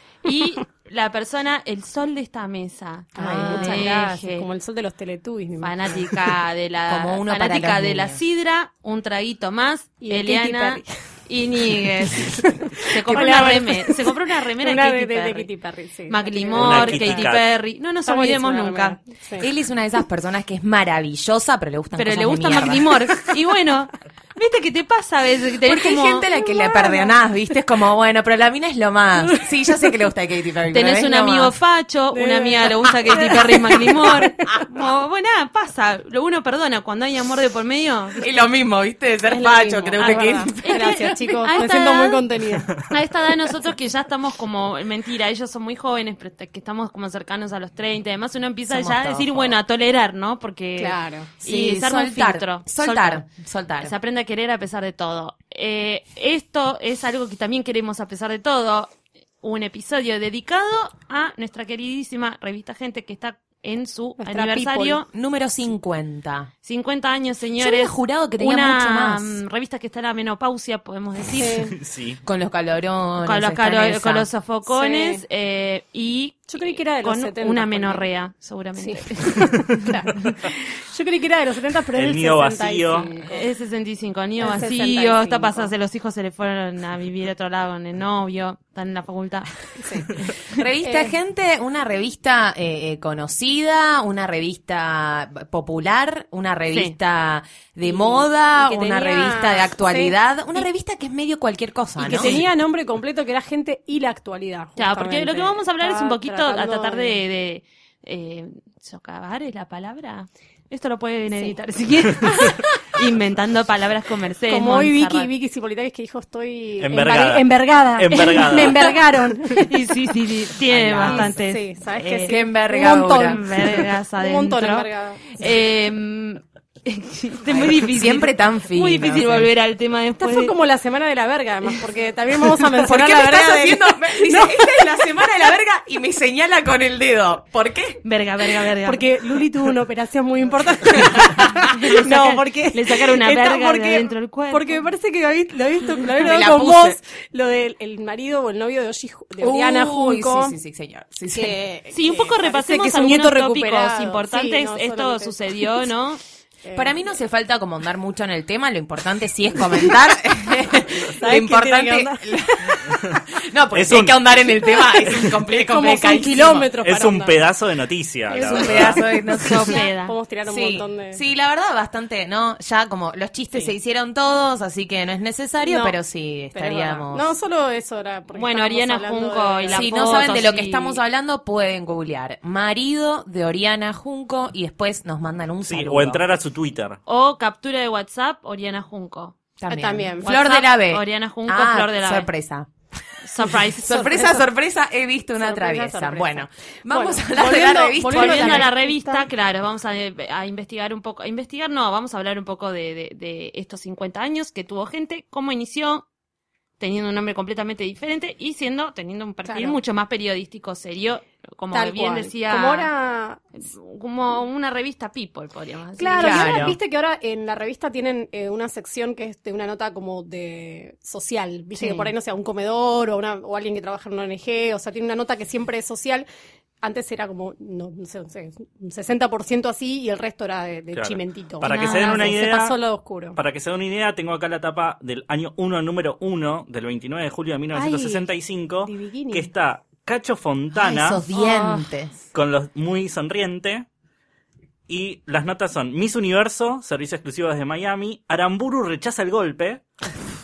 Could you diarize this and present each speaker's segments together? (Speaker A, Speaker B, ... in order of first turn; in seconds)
Speaker A: 0.2-4.5, 5.6-15.5, 16.1-19.0, 21.9-26.3, 30.7-38.2, 40.0-42.2, 42.8-53.2, 53.8-65.1, 66.6-71.6, 73.2-79.5, 83.3-90.6, 96.7-97.0, 104.8-115.3, 119.7-122.4, 123.2-130.5, 138.0-139.1, 141.2-144.8, 151.9-156.2, 169.3-170.1, 178.3-181.0, 187.1-189.4, 190.2-192.3, 193.2-194.4, 198.1-206.1, 206.8-212.9, 213.5-216.6, 241.3-241.8
Speaker B: 3.1-4.0, 6.9-8.2, 19.4-22.9, 25.6-31.5, 38.2-40.6, 48.7-49.6, 51.4-53.9, 65.1-66.5, 67.6-69.4, 72.2-74.3, 90.5-102.4, 120.7-121.3, 122.3-123.4, 127.5-129.5, 132.8-138.0, 146.1-147.0, 149.4-151.6, 156.7-166.7, 168.3-169.8, 170.4-177.3, 179.7-186.2, 189.6-192.7, 193.5-198.7, 216.2-216.8, 221.8-222.1, 240.7-242.1
Speaker C: 3.1-6.0, 10.0-10.8, 11.8-17.3, 18.0-19.5, 26.4-27.1, 32.1-34.3, 39.3-42.9, 50.8-51.3, 64.2-65.0, 71.4-71.7, 74.7-75.2, 76.5-78.0, 78.8-83.5, 84.4-85.7, 89.8-90.1, 97.8-100.2, 102.0-107.2, 114.5-119.8, 121.0-125.4, 130.2-135.1, 138.8-150.5, 151.3-155.7, 156.6-156.9, 161.0-162.8, 164.7-167.4, 168.3-168.9, 169.5-171.2, 175.6-175.9, 176.5-180.4, 189.7-190.3, 195.4-199.3, 209.5-209.8, 211.7-213.4, 216.0-226.3, 226.8-233.4, 237.7-238.3, 238.8-239.5
Speaker D: 16.5-17.4, 71.8-72.2, 81.9-83.1, 116.8-119.0, 163.7-164.2, 166.8-169.0, 185.6-187.0, 230.9-232.8, 233.3-241.2, 242.3-243.8, 244.9-249.8